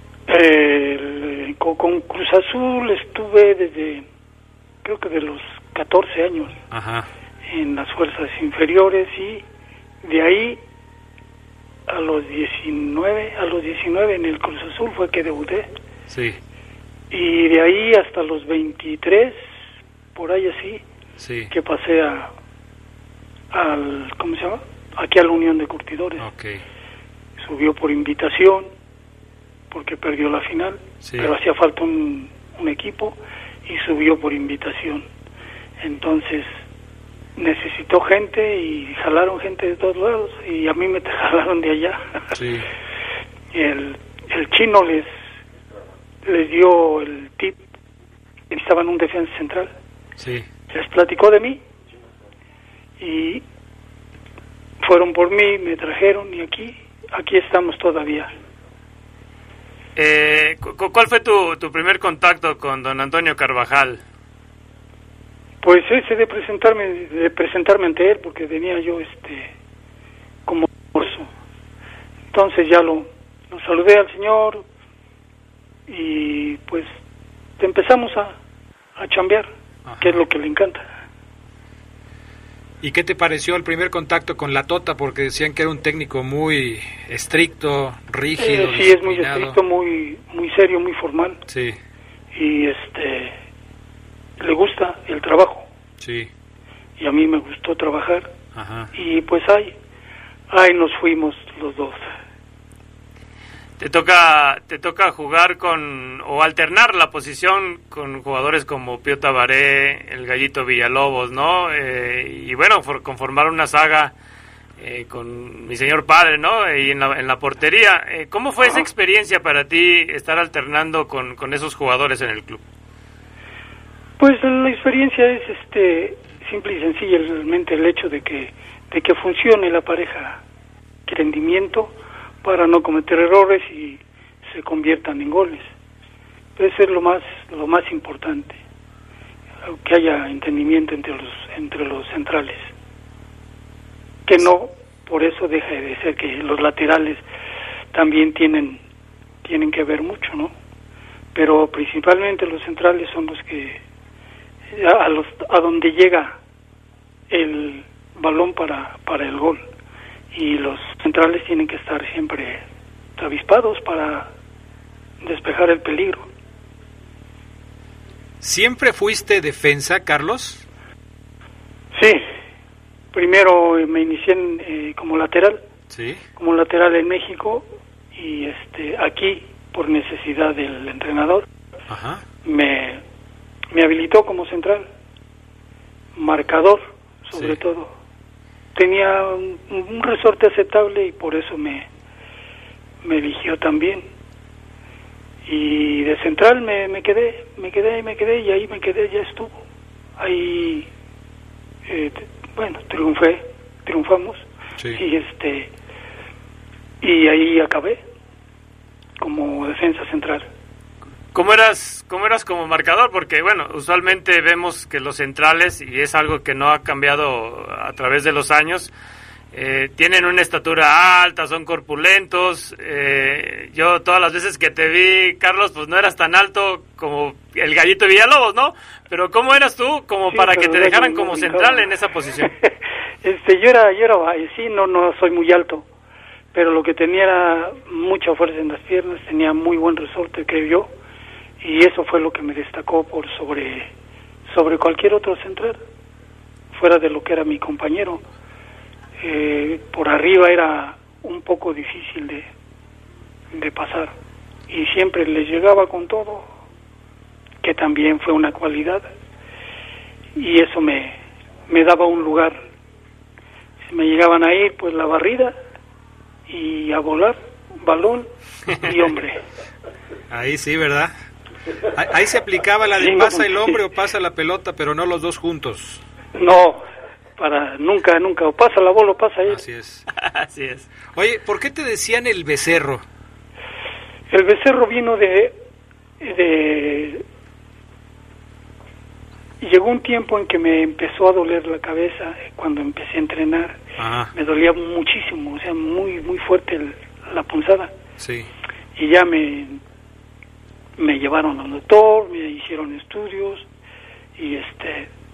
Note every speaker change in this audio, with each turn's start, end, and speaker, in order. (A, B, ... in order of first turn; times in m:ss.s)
0:00.3-0:04.1 A
0:04.8-0:06.6 A
0:06.7-0:07.1 B
0:07.5-0:09.4 A
0:10.0-0:10.6 A
0:11.9-0:15.7 A
0:16.1-0:16.4 B
0:17.1-0:19.4 A
0:20.1-0:20.8 A
0:21.2-0:21.5 B
0:21.5-0:22.3 A
0:23.5-0:26.3 A
0:26.2-0:26.6 B
0:27.4-0:28.7 A
0:29.7-0:35.1 A
0:31.0-0:31.3 B
0:35.8-0:36.5 A
0:37.4-0:42.4 A
0:42.3-0:42.7 B
0:43.5-0:45.1 A
0:46.2-0:47.6 A
0:48.5-0:49.7 A
0:50.2-0:50.5 B
0:50.7-0:51.6 A
0:53.0-0:53.4 A
0:54.8-0:58.3 A
1:00.0-1:04.0 C
1:05.6-1:09.5 A
1:10.4-1:11.3 A
1:12.3-1:14.6 A
1:15.9-1:16.9 A
1:17.6-1:18.4 A
1:19.0-1:19.5 A
1:19.9-1:20.2 B
1:20.0-1:20.8 A
1:22.8-1:29.6 B
1:28.4-1:31.4 A
1:31.5-1:31.8 B
1:32.3-1:33.4 A
1:34.4-1:35.6 A
1:36.0-1:36.3 B
1:37.0-1:38.3 A
1:38.6-1:38.9 B
1:38.9-1:39.7 A
1:40.5-1:42.0 A
1:43.8-1:54.1 C
1:54.8-2:02.6 C
2:04.2-2:10.4 A
2:11.1-2:11.9 A
2:12.4-2:15.7 A
2:16.6-2:18.6 A
2:19.7-2:22.7 A
2:24.3-2:27.2 A
2:27.9-2:28.8 A
2:29.4-2:30.5 A
2:31.4-2:33.8 A
2:34.7-2:36.4 A
2:37.3-2:39.6 A
2:40.3-2:42.6 A
2:43.2-2:44.3 A
2:45.2-2:46.3 A
2:48.4-2:50.7 B
2:51.9-2:52.2 A
2:53.1-2:55.6 A
2:55.9-2:56.2 B
2:56.4-3:01.5 A
3:01.9-3:02.2 B
3:02.4-3:03.0 A
3:03.7-3:04.9 A
3:06.2-3:07.9 A
3:08.7-3:11.9 A
3:13.0-3:14.1 A
3:15.4-3:19.5 A
3:20.2-3:20.9 A
3:21.9-3:25.7 A
3:27.0-3:28.0 A
3:29.2-3:30.5 A
3:31.3-3:38.9 C
3:39.5-3:52.5 C
3:50.3-3:55.9 A
3:56.5-4:00.9 A
4:01.6-4:03.9 A
4:04.5-4:05.8 A
4:06.7-4:08.2 A
4:09.2-4:12.5 A
4:13.5-4:14.1 A
4:14.7-4:16.4 A
4:17.6-4:19.1 A
4:20.4-4:21.2 A
4:21.7-4:22.6 A
4:23.9-4:25.5 A
4:26.5-4:29.4 A
4:30.3-4:31.1 B
4:31.8-4:36.0 B
4:33.0-4:33.8 A
4:36.4-4:36.8 A
4:37.4-4:39.6 A
4:39.5-4:40.0 B
4:40.2-4:40.9 C
4:41.1-4:43.1 B
4:44.3-4:45.6 A
4:46.2-4:47.2 A
4:49.6-4:53.8 A
4:54.0-4:54.3 B
4:54.3-4:57.9 A
4:58.2-4:58.5 B
4:59.0-4:59.8 A
5:01.0-5:03.6 A
5:04.4-5:05.1 A